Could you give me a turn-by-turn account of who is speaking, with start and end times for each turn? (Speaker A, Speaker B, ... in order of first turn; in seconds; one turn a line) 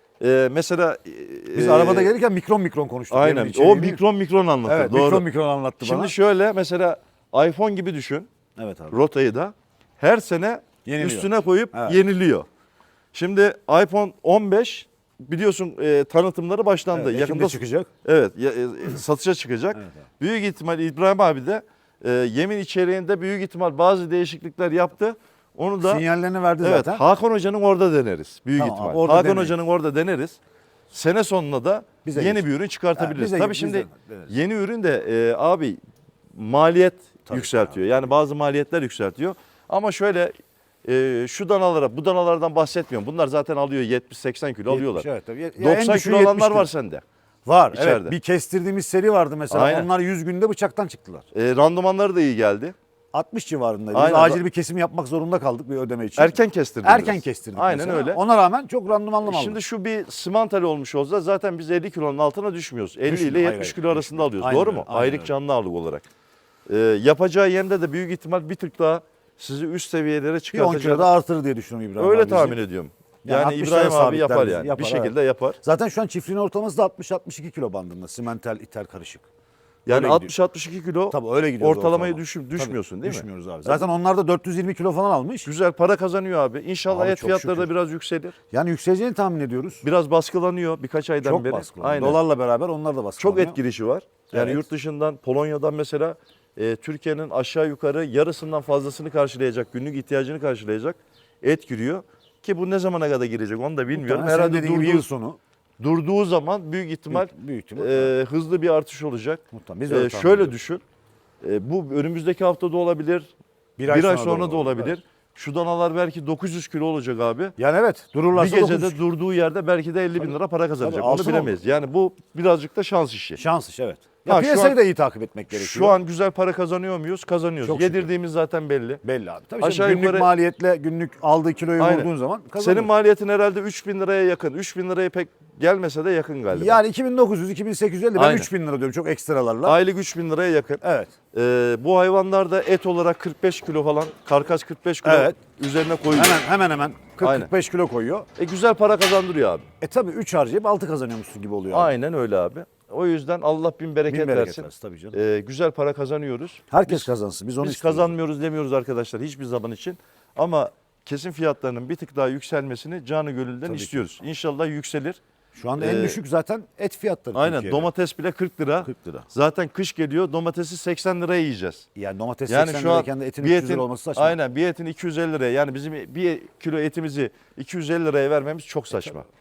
Speaker A: 0.2-2.1
Speaker B: 1.5-4.0
Speaker A: 3.1-5.2
Speaker B: 4.7-6.1
Speaker A: 5.8-8.3
Speaker B: 8.6-9.0
Speaker A: 8.9-12.5
Speaker B: 10.8-12.0
Speaker A: 13.1-26.0
Speaker B: 16.9-17.9
Speaker B: 25.8-27.0
Speaker A: 26.6-30.4
Speaker B: 28.6-29.6
Speaker A: 30.9-35.8
Speaker B: 32.0-34.3
Speaker A: 36.3-40.3
Speaker B: 37.3-38.1
Speaker A: 40.9-45.1
Speaker B: 44.7-46.7
Speaker A: 45.6-47.0
Speaker B: 47.5-51.3
Speaker A: 47.7-48.1
Speaker A: 49.5-49.9
Speaker A: 51.3-52.8
Speaker B: 53.1-59.6
Speaker A: 53.9-54.4
Speaker A: 56.2-58.2
Speaker A: 59.3-66.1
Speaker B: 63.1-65.3
Speaker A: 66.7-71.1
Speaker B: 70.5-72.6
Speaker A: 72.0-75.6
Speaker B: 73.2-79.3
Speaker A: 79.9-83.8
Speaker B: 79.9-80.3
Speaker B: 81.1-85.5
Speaker A: 85.4-88.4
Speaker B: 86.9-87.7
Speaker B: 88.5-89.8
Speaker A: 89.8-92.2
Speaker B: 91.2-93.6
Speaker A: 93.2-105.1
Speaker B: 94.3-94.7
Speaker B: 103.9-105.4
Speaker A: 105.8-110.8
Speaker B: 107.1-108.1
Speaker B: 109.5-110.6
Speaker A: 111.4-113.3
Speaker B: 113.8-115.0
Speaker A: 113.8-117.5
Speaker B: 117.6-119.0
Speaker A: 118.3-123.4
Speaker B: 120.2-121.6
Speaker B: 123.4-126.0
Speaker A: 124.2-124.8
Speaker A: 125.5-129.0
Speaker B: 127.6-128.1
Speaker B: 129.0-132.9
Speaker A: 129.6-130.3
Speaker A: 131.8-136.8
Speaker B: 136.5-139.8
Speaker A: 138.2-138.5
Speaker A: 139.7-140.8
Speaker B: 140.8-141.1
Speaker A: 141.3-146.4
Speaker B: 145.0-145.4
Speaker B: 146.1-148.3
Speaker A: 147.2-147.5
Speaker A: 148.4-149.7
Speaker B: 149.8-151.9
Speaker A: 151.7-157.1
Speaker B: 154.1-155.2
Speaker B: 156.7-158.2
Speaker A: 157.6-165.2
Speaker B: 163.7-164.2
Speaker B: 165.5-167.9
Speaker A: 165.8-166.2
Speaker A: 167.3-171.8
Speaker B: 168.8-169.3
Speaker B: 171.9-174.4
Speaker A: 172.5-179.3